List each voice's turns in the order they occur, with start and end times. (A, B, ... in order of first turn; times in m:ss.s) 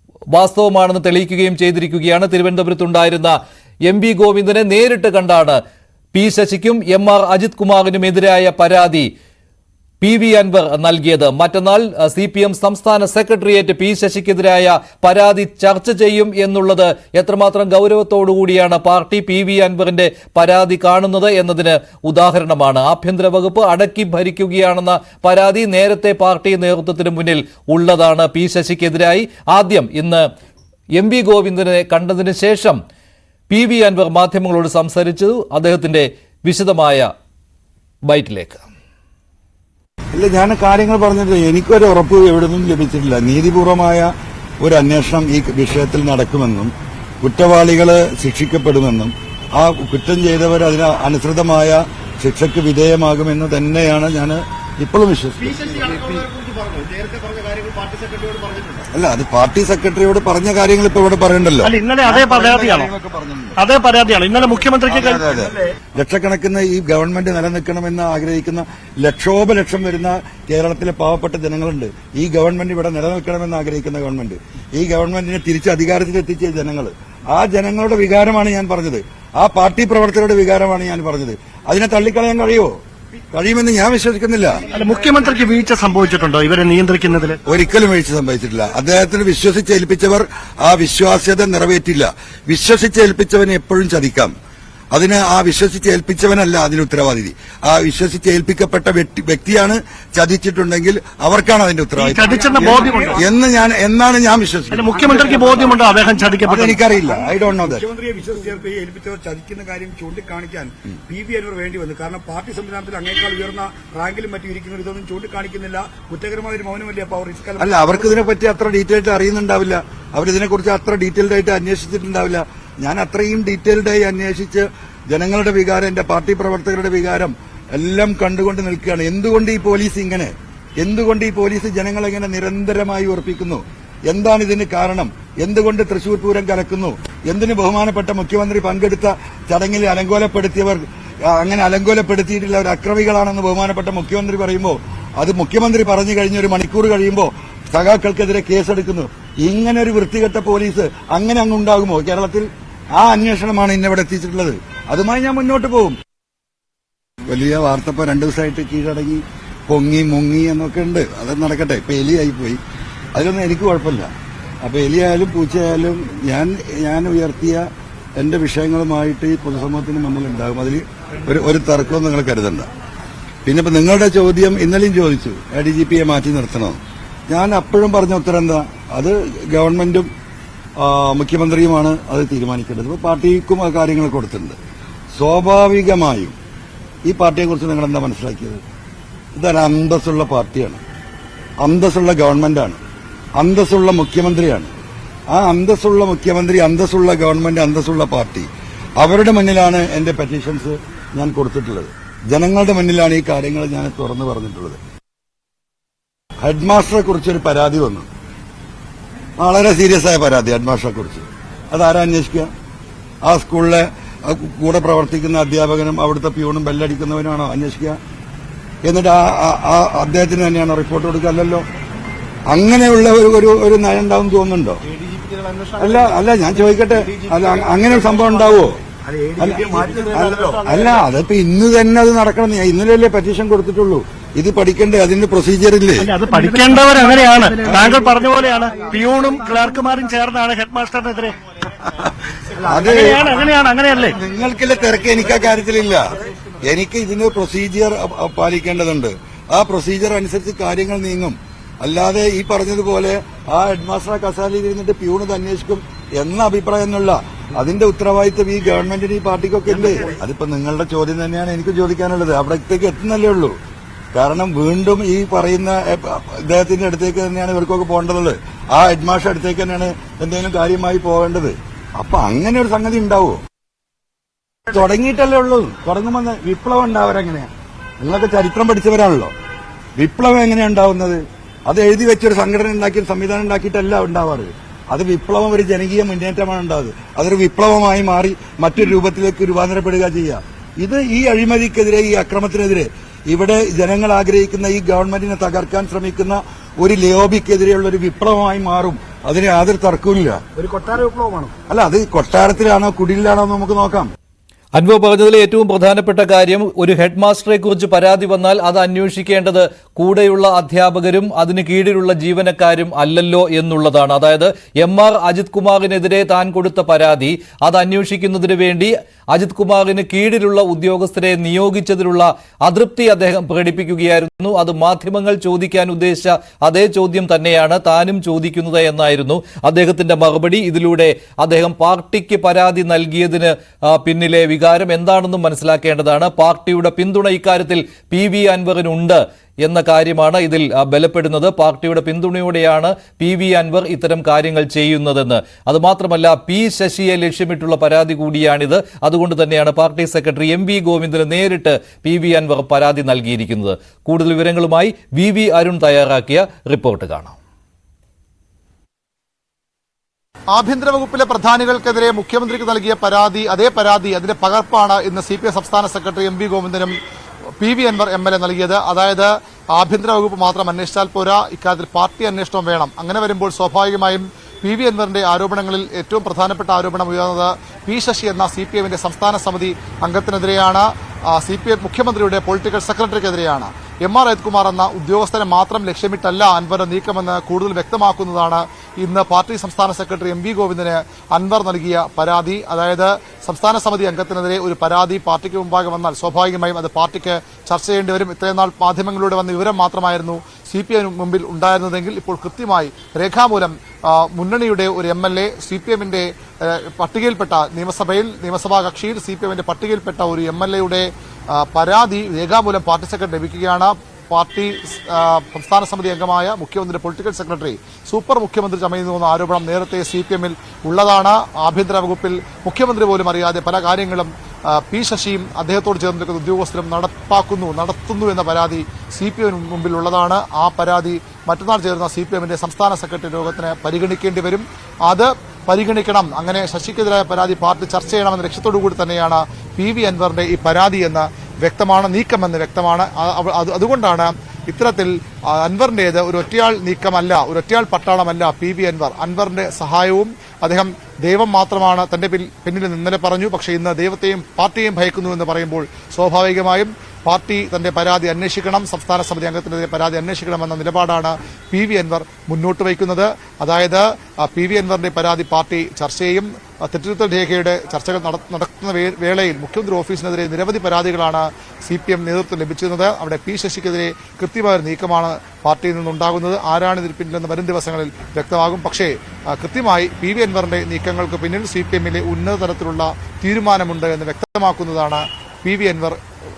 0:00.3-0:05.6 A
0:06.1-0:09.1 A
0:10.0-0:30.2 A
0:30.9-0:32.8 A
0:33.5-0:37.1 A
0:38.1-0:38.6 A
0:40.1-0:56.2 B
0:55.5-0:58.8 C
0:58.9-1:03.6 B
1:01.6-1:02.9 D
1:03.6-1:05.2 D
1:04.9-1:22.8 B
1:05.2-1:05.6 C
1:23.3-1:24.6 B
1:24.7-1:27.4 D
1:27.5-1:34.3 B
1:34.9-1:45.8 B
1:42.0-1:43.1 D
1:42.2-1:43.3 C
1:44.7-1:46.7 D
1:44.7-1:58.1 C
1:46.4-1:47.8 B
1:57.6-2:36.0 B
2:37.2-2:42.6 B
2:43.1-2:44.1 B
2:44.6-2:47.6 B
2:48.2-2:52.7 B
2:53.4-2:56.8 B
2:57.3-3:00.1 B
3:00.8-3:04.6 B
3:05.1-3:06.3 B
3:07.0-3:08.6 B
3:09.3-3:10.8 B
3:11.6-3:12.8 B
3:13.4-3:14.7 B
3:15.3-3:18.5 B
3:19.0-3:24.8 B
3:26.4-3:28.1 B
3:29.4-3:32.5 B
3:33.2-3:38.0 B
3:38.8-3:41.6 B
3:42.5-3:44.8 B
3:45.2-3:45.9 C
3:45.8-3:48.8 B
3:47.2-3:48.3 C
3:49.0-3:50.9 C
3:49.4-3:56.1 B
3:56.0-4:01.4 D
3:57.7-3:58.0 B
4:02.6-4:03.5 C
4:02.6-4:03.3 B
4:02.9-4:04.2 D
4:04.1-4:06.0 B
4:06.6-4:23.5 B
4:24.1-4:33.4 B
4:34.7-4:39.3 B
4:40.0-5:00.4 B
5:00.6-5:01.5 C
5:01.7-5:04.1 B
5:04.8-5:57.4 A
6:00.5-6:07.0 E
6:07.6-8:06.2 E